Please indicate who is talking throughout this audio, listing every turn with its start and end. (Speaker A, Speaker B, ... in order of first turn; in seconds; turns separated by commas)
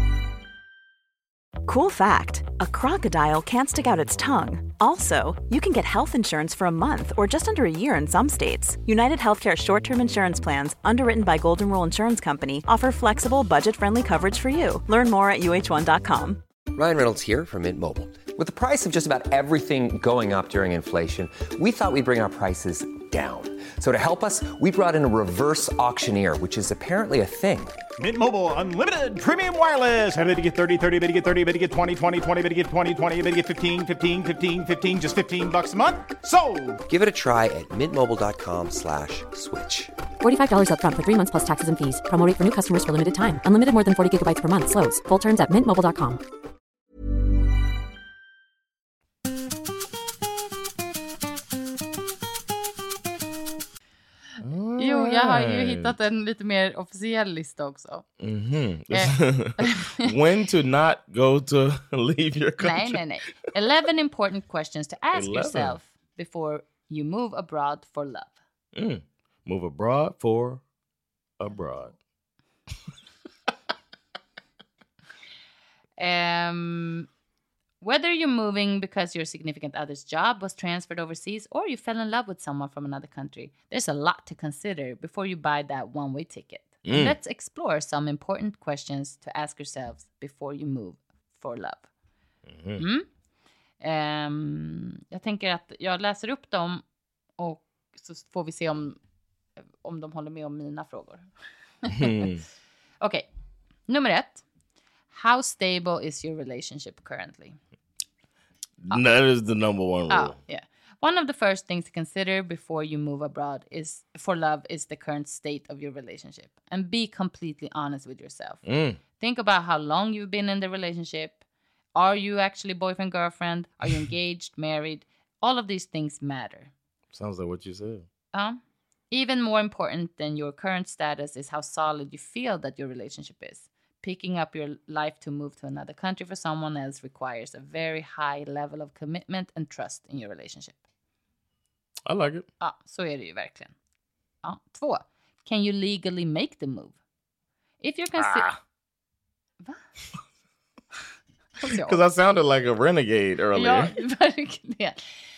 Speaker A: 1.6-16.4, Speaker B: 16.7-27.8, Speaker C: 28.0-36.8, Speaker B: 36.9-39.9, Speaker D: 40.2-46.2, Speaker E: 54.4-55.9, Speaker F: 54.8-58.0, Speaker E: 58.2-63.0, Speaker F: 58.9-60.1, Speaker F: 62.6-68.3, Speaker E: 65.1-65.8, Speaker E: 68.7-70.6, Speaker E: 71.4-71.9, Speaker F: 76.0-77.1, Speaker F: 77.8-91.8, Speaker E: 86.8-87.2, Speaker E: 92.5-92.8, Speaker F: 92.8-93.1, Speaker F: 93.8-96.8, Speaker F: 97.4-99.0, Speaker F: 99.8-101.2, Speaker F: 101.8-102.3, Speaker E: 101.9-102.4, Speaker F: 103.0-103.2, Speaker F: 103.9-104.4, Speaker F: 105.1-107.6, Speaker E: 108.8-110.4, Speaker F: 110.1-118.6, Speaker E: 118.6-119.0, Speaker F: 119.2-121.4, Speaker F: 122.0-126.7, Speaker E: 127.1-128.1, Speaker F: 128.3-128.6, Speaker F: 129.1-140.8, Speaker E: 142.1-142.4, Speaker F: 142.6-143.7, Speaker F: 144.4-146.9, Speaker F: 147.8-148.5, Speaker E: 148.2-148.6, Speaker F: 151.6-152.0, Speaker E: 151.7-153.9, Speaker F: 153.5-155.1